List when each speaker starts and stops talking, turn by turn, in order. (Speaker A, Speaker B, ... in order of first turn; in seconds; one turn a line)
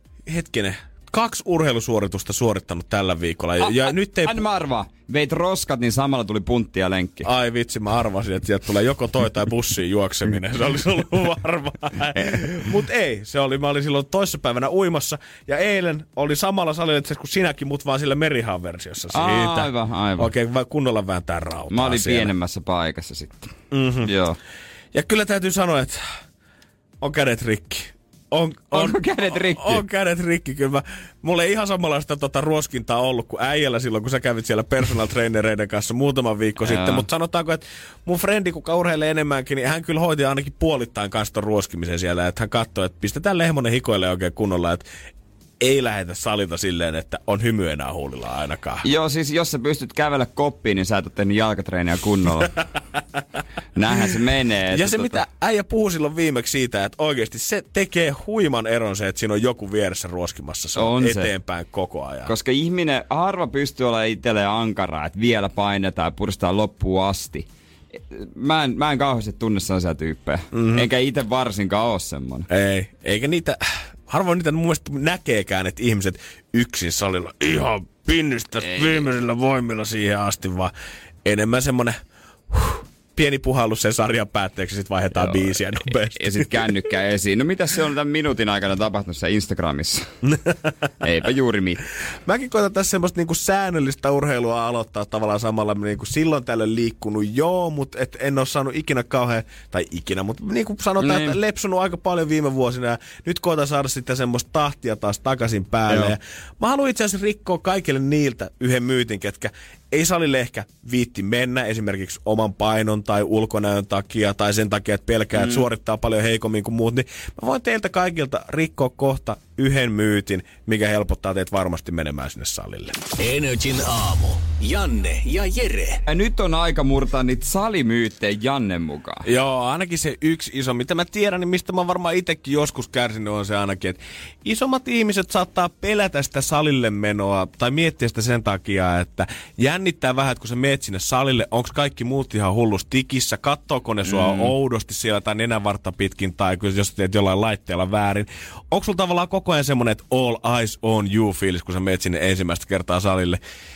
Speaker A: 0.2-4.4
Speaker B: 3.6-7.3
Speaker A: 7.2-22.3
Speaker B: 19.1-20.3
Speaker B: 21.7-24.4
Speaker A: 23.7-24.1
Speaker A: 24.9-26.0
Speaker A: 27.0-44.9
Speaker B: 28.7-29.8
Speaker B: 36.6-37.0
Speaker A: 45.6-48.8
Speaker B: 48.8-52.6
Speaker B: 53.8-55.2
Speaker A: 54.7-62.3
Speaker B: 60.8-61.3
Speaker B: 62.2-67.5
Speaker B: 68.1-72.5
Speaker A: 70.5-70.9
Speaker A: 72.5-80.7
Speaker B: 78.6-79.0
Speaker A: 81.2-82.0
Speaker A: 82.5-86.8
Speaker B: 85.2-90.1
Speaker A: 90.2-90.7
Speaker B: 91.0-91.8
Speaker A: 92.2-123.0
Speaker B: 101.0-101.4
Speaker B: 105.9-106.1
Speaker B: 115.3-115.7
Speaker C: 123.2-126.0
Speaker B: 126.0-129.2
Speaker A: 129.2-153.4
Speaker B: 144.0-144.5